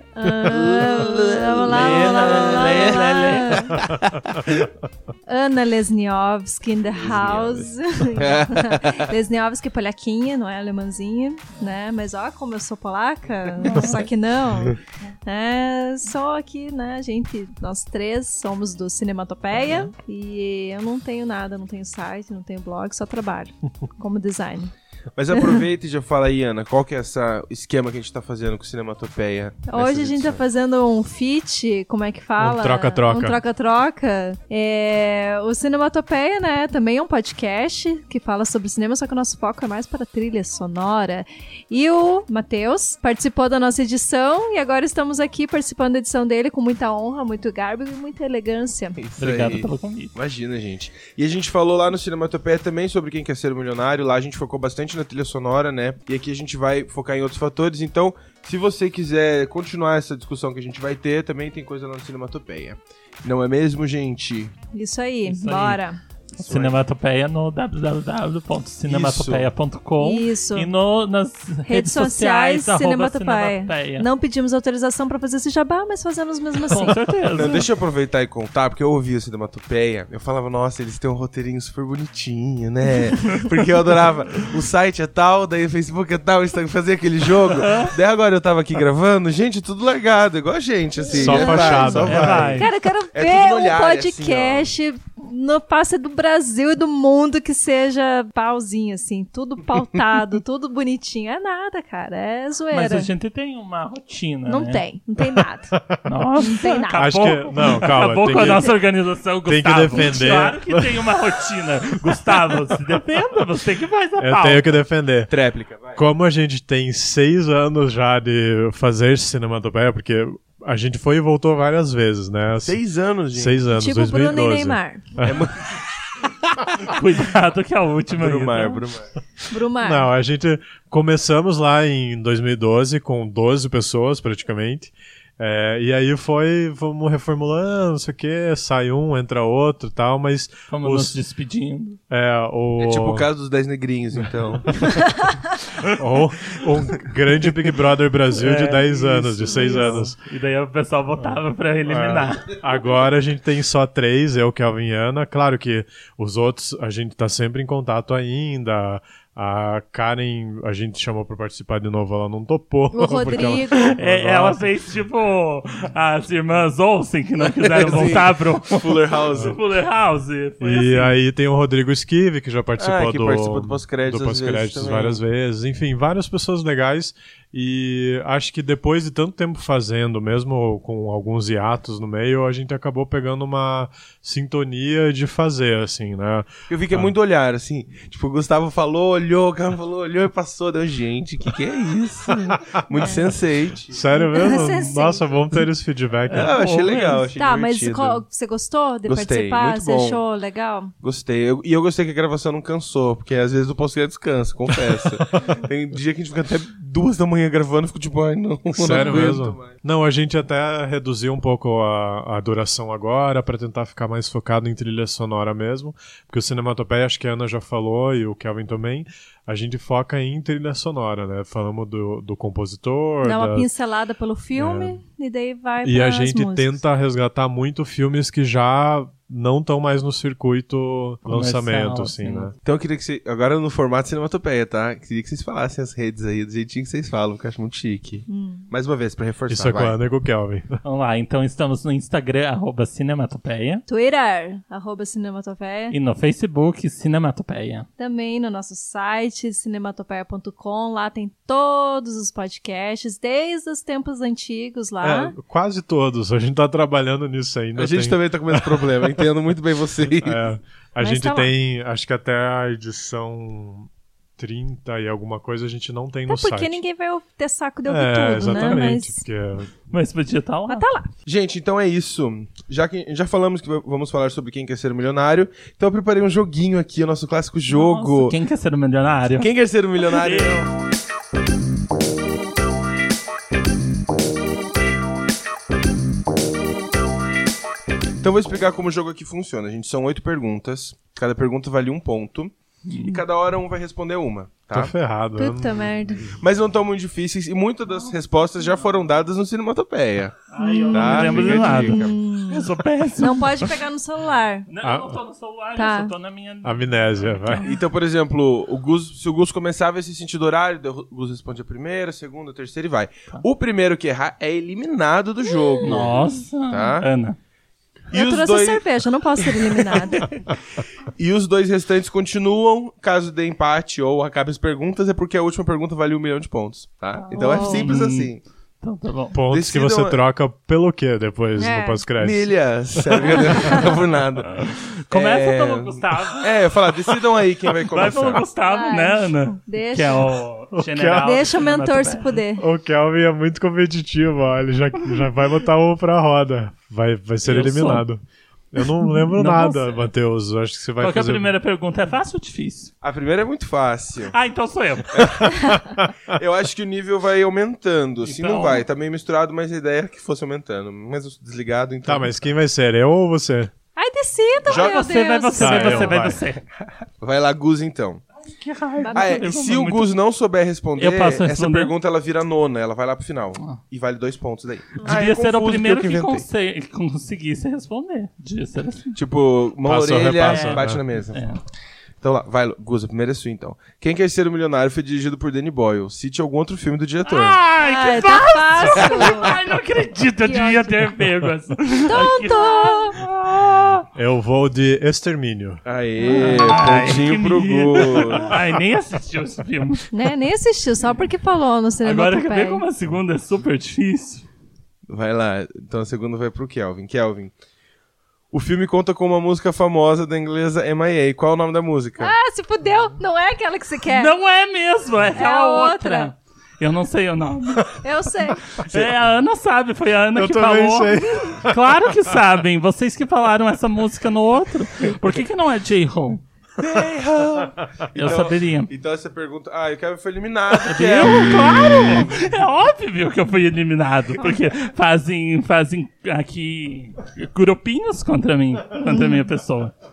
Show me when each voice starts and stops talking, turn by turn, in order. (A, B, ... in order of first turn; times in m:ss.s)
0:00.2-0:03.8 A
0:00.4-0:03.4 B
0:01.7-0:03.8 C
0:04.4-0:04.7 B
0:05.3-0:24.7 A
0:07.0-0:09.2 B
0:13.6-0:14.1 C
0:25.2-0:30.4 B
0:29.7-0:49.0 A
0:32.4-0:33.4 D
0:49.0-1:04.6 B
0:49.2-0:50.1 C
1:04.7-1:06.0 A
1:05.3-1:05.8 C
1:06.4-1:14.1 C
1:06.4-1:06.8 B
1:08.9-1:09.5 B
1:10.0-1:10.7 A
1:11.7-1:16.9 A
1:16.7-1:17.7 C
1:17.3-1:34.7 B
1:27.5-1:27.9 C
1:31.1-1:32.7 D
1:31.2-1:43.1 A
1:31.2-1:32.7 C
1:42.7-1:44.8 C
1:44.5-1:45.8 A
1:46.0-1:54.7 C
1:46.4-1:47.3 A
1:46.9-1:48.8 D
1:49.5-1:51.2 D
1:52.0-1:52.3 D
1:54.2-1:55.3 D
1:55.3-1:56.0 B
1:55.9-2:02.8 D
2:02.6-2:03.6 B
2:03.3-2:05.5 D
2:03.7-2:05.1 A
2:05.2-2:05.6 B
2:06.8-2:08.8 C
2:08.2-2:09.1 B
2:09.5-2:10.1 A
2:09.8-2:21.2 D
2:20.7-2:22.0 C
2:22.1-2:23.3 D
2:22.8-2:24.9 B
2:24.2-2:25.0 D
2:25.8-2:30.2 D
2:28.3-2:32.6 C
2:29.6-2:30.0 B
2:31.9-2:44.6 D
2:42.9-2:44.0 A
2:44.0-2:51.1 C
2:47.6-2:49.6 B
2:50.6-3:07.1 D
2:52.8-2:55.2 B
3:06.7-3:14.0 B
3:12.9-3:13.2 A
3:13.9-3:16.6 D
3:14.2-3:15.2 A
3:16.3-3:17.3 C
3:16.3-3:18.2 B
3:17.4-3:20.9 A
3:19.0-3:20.2 B
3:21.0-3:29.8 B
3:28.7-3:43.7 D
3:43.2-3:46.8 A
3:44.6-3:45.0 D
3:45.8-3:52.5 D
3:51.3-3:52.5 C
3:52.6-3:59.9 B
3:58.3-3:58.7 A
3:59.5-4:00.8 D
4:00.8-4:03.8 C
4:03.9-4:06.0 A
4:05.9-4:07.8 C
4:08.0-4:15.4 A
4:15.0-4:19.2 D
4:17.8-4:20.4 B
4:20.2-4:26.8 D
4:21.0-4:21.5 A
4:26.3-4:29.2 A
4:27.9-4:29.7 D
4:28.4-4:28.8 C
4:29.9-4:30.8 C
4:30.7-4:31.1 A
4:31.2-4:38.4 B
4:37.7-4:39.5 C
4:39.4-4:40.6 B
4:40.0-4:40.7 C
4:48.2-4:54.9 B
4:52.9-4:53.2 C
4:54.7-4:56.4 D
4:55.4-4:56.3 A
4:56.3-5:00.4 B
5:00.5-5:03.8 C
5:00.6-5:02.6 A
5:00.9-5:02.1 B
5:03.2-5:04.7 A
5:04.7-5:07.7 C
5:04.8-5:05.2 D
5:05.8-5:06.1 A
5:06.6-5:07.7 D
5:07.6-5:16.1 B
5:15.6-5:16.0 A
5:15.8-5:17.4 C
5:16.7-5:17.0 B
5:18.1-5:18.8 B
5:18.1-5:20.3 A
5:19.4-5:20.5 B
5:21.1-5:28.4 B
5:27.1-5:29.4 C
5:27.3-5:27.9 A
5:29.3-5:32.5 D
5:29.5-5:30.2 B
5:31.6-5:32.0 A
5:32.2-5:38.4 B
5:33.0-5:33.8 D
5:34.5-5:37.2 C
5:37.9-5:42.4 C
5:38.6-5:40.3 A
5:40.7-5:41.4 D
5:41.2-5:42.6 A
5:42.6-5:48.2 D
5:47.5-5:48.0 C
5:48.7-5:51.5 D
5:49.1-5:50.0 C
5:51.0-5:52.9 C
5:53.0-5:54.4 B
5:54.3-5:55.4 C
5:55.1-6:02.3 B
5:55.5-5:56.1 D
5:58.2-5:58.8 C
6:02.0-6:03.7 D
6:04.0-6:06.2 A
6:04.7-6:06.6 C
6:04.7-6:05.0 B
6:05.6-6:06.4 D
6:07.2-6:08.2 B
6:08.5-6:10.1 C
6:09.0-6:09.4 A
6:09.1-6:16.5 B
6:11.0-6:11.9 C
6:15.0-6:19.2 C
6:19.1-6:21.4 B
6:19.8-6:21.0 D
6:20.4-6:21.6 C
6:22.2-6:27.6 B
6:27.2-6:34.0 C
6:27.8-6:29.6 A
6:29.0-6:29.5 B
6:30.4-6:31.1 A
6:32.1-6:33.2 A
6:34.1-6:35.8 D
6:35.8-6:38.6 B
6:36.2-6:40.1 C
6:36.3-6:36.5 A
6:40.1-6:42.8 A
6:42.0-6:44.5 C
6:45.1-6:47.5 B
6:48.5-6:52.3 B
6:52.2-6:54.3 A
6:54.1-6:57.9 C
6:55.4-6:56.3 A
6:58.0-6:58.6 A
6:58.8-7:06.4 C
7:00.4-7:02.1 D
7:06.8-7:11.6 B
7:08.1-7:08.9 C
7:10.8-7:19.9 C
7:19.0-7:19.4 A